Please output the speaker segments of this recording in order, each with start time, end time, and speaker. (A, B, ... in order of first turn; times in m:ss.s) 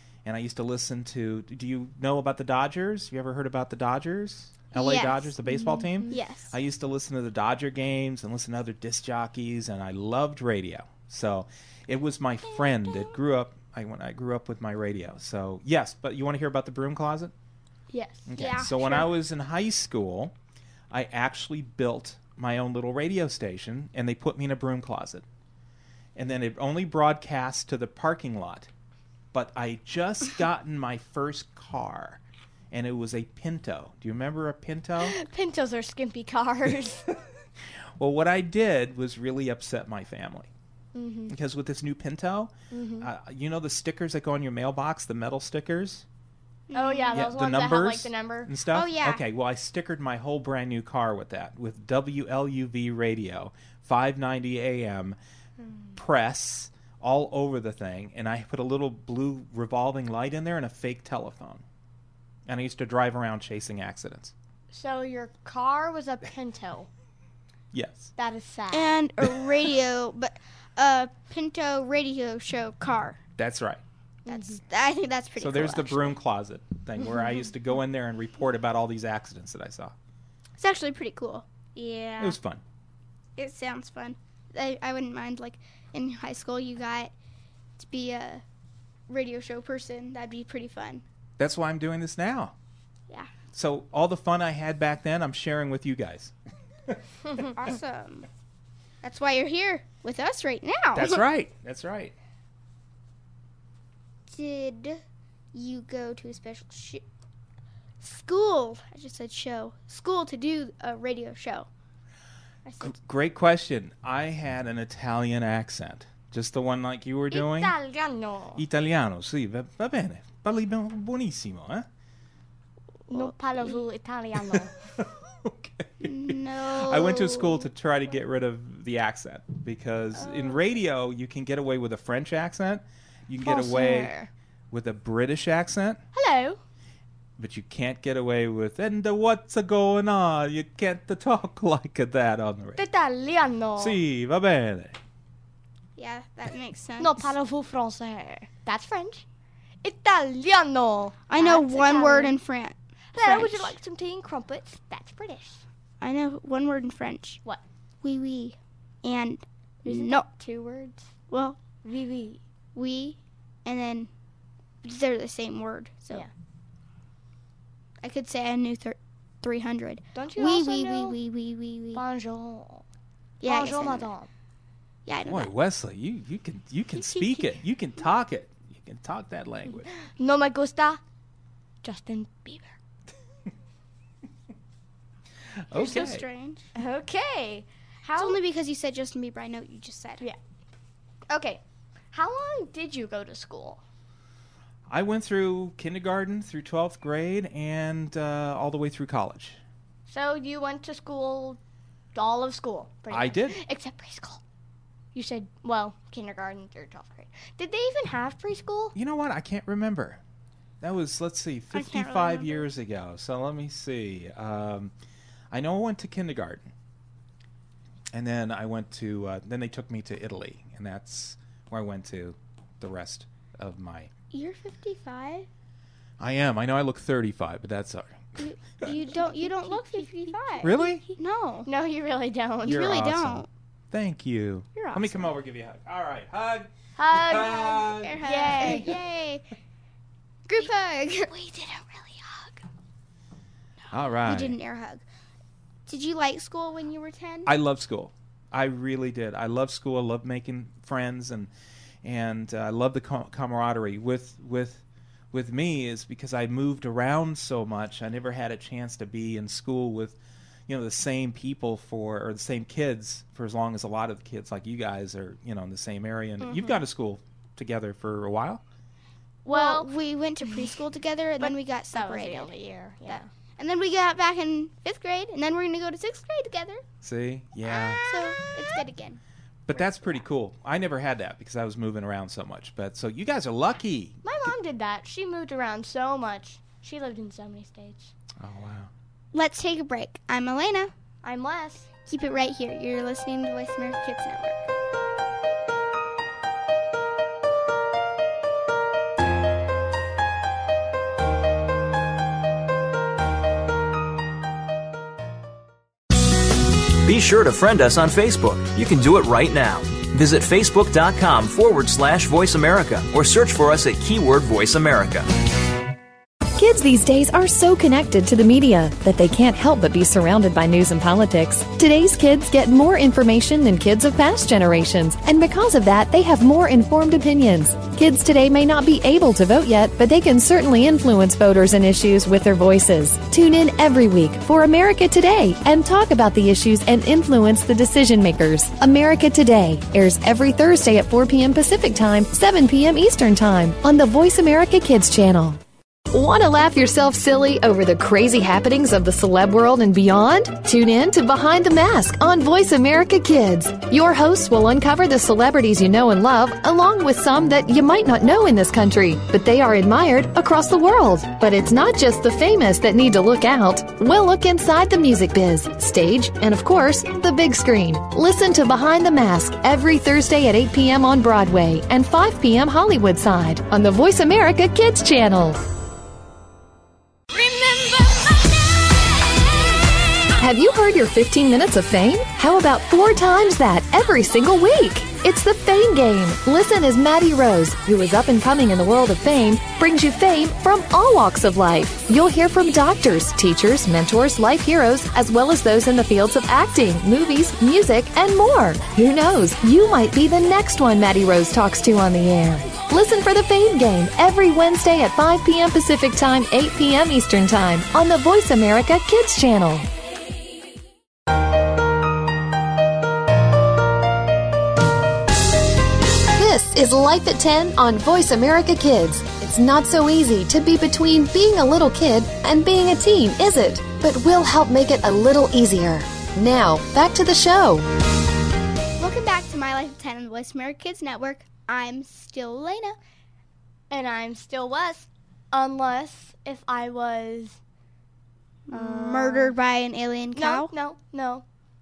0:00.2-0:17.3 A
0:04.7-0:05.3 B
0:05.4-0:06.2 C
0:06.1-0:06.6 B
0:17.9-0:18.3 C
0:18.3-0:20.3 A
0:18.4-0:19.1 B
0:20.9-0:25.2 A
0:26.2-0:28.7 A
0:29.3-0:32.2 A
0:32.7-0:35.2 A
0:35.0-0:37.0 C
0:38.0-0:40.5 A
0:40.9-0:41.4 C
0:41.3-0:46.1 A
0:42.7-0:43.1 C
0:46.7-0:47.3 B
0:46.7-0:48.5 C
0:47.1-0:55.2 A
0:48.7-0:49.2 B
0:55.6-0:56.0 C
0:56.0-1:01.6 A
1:02.5-1:04.3 A
1:04.7-1:06.9 C
1:07.7-1:08.1 A
1:08.2-1:09.0 C
1:08.7-1:13.2 B
1:13.4-1:13.8 A
1:14.3-1:14.6 C
1:14.3-1:16.2 B
1:15.4-1:20.0 A
1:20.6-1:21.5 B
1:21.8-1:22.4 C
1:22.2-1:22.6 A
1:23.4-1:27.1 B
1:27.8-1:28.4 B
1:29.1-1:31.0 B
1:31.4-1:32.6 A
1:33.5-1:36.3 A
1:37.6-1:38.3 B
1:39.0-1:41.2 B
1:40.9-1:42.1 A
1:44.3-1:45.0 B
1:45.5-1:47.0 B
1:48.0-1:51.7 B
1:52.6-1:52.9 B
1:52.8-1:57.8 A
1:57.3-1:58.6 C
1:58.6-2:01.9 A
2:03.1-2:04.8 C
2:04.4-2:14.2 A
2:06.0-2:07.7 B
2:10.2-2:10.6 B
2:13.4-2:14.3 C
2:14.7-2:16.0 A
2:16.1-2:16.6 C
2:17.4-2:22.8 A
2:22.8-2:24.0 C
2:23.8-2:25.0 A
2:26.0-2:27.3 B
2:27.0-2:29.2 C
2:29.8-2:32.4 C
2:31.3-2:33.8 B
2:33.2-2:35.6 C
2:36.0-2:37.4 B
2:38.0-2:40.3 B
2:39.8-2:41.1 C
2:41.3-2:41.6 B
2:41.8-2:42.4 C
2:42.8-2:44.1 B
2:44.8-2:46.3 B
2:48.0-2:52.0 B
2:50.2-2:51.2 C
2:51.9-2:52.8 C
2:53.4-2:54.1 B
2:53.4-2:54.3 C
2:55.0-2:55.5 B
2:55.2-2:59.9 A
2:57.0-2:57.5 B
3:00.0-3:01.0 C
3:01.8-3:02.8 C
3:05.7-3:06.2 A
3:05.7-3:06.7 B
3:05.8-3:06.1 C
3:06.8-3:08.4 C
3:08.2-3:10.2 B
3:11.3-3:11.6 C
3:12.1-3:13.8 C
3:14.9-3:19.6 A
3:20.1-3:21.6 C
3:22.2-3:24.4 C
3:23.1-3:23.6 A
3:25.2-3:29.0 C
3:29.0-3:30.2 A
3:30.8-3:34.9 A
3:31.7-3:32.7 B
3:35.5-3:36.7 A
3:38.1-3:44.1 A
3:44.3-3:45.5 B
3:46.2-3:48.9 A
3:48.4-3:51.7 B
3:48.9-3:50.9 C
3:50.6-3:51.1 A
3:51.6-3:52.9 C
3:52.6-3:53.5 B
3:52.6-3:59.0 A
3:54.8-3:55.3 B
3:57.0-3:59.0 C
3:57.3-3:59.4 B
4:00.5-4:01.3 B
4:00.6-4:02.6 C
4:03.9-4:04.6 A
4:04.2-4:05.0 B
4:05.9-4:07.5 B
4:07.4-4:11.5 A
4:12.0-4:28.6 A
4:26.4-4:26.8 C
4:29.5-4:29.9 C
4:29.5-4:32.5 B
4:30.4-4:30.7 C
4:31.4-4:33.3 C
4:33.1-4:36.8 B
4:37.0-4:38.1 A
4:37.7-4:39.2 B
4:39.7-4:44.5 A
4:44.2-4:48.1 C
4:48.4-4:48.9 A
4:49.3-4:50.9 B
4:51.2-4:51.9 C
4:52.1-4:54.7 B
5:07.0-5:15.3 D
5:16.6-5:45.6 E
5:46.1-6:15.6 E
6:17.4-6:18.0 E
6:20.4-6:49.9 E
6:56.4-7:07.9 E
7:09.0-7:13.0 B
7:13.9-7:17.6 C
7:18.7-7:20.7 B
7:18.7-7:19.6 C
7:20.3-7:21.4 C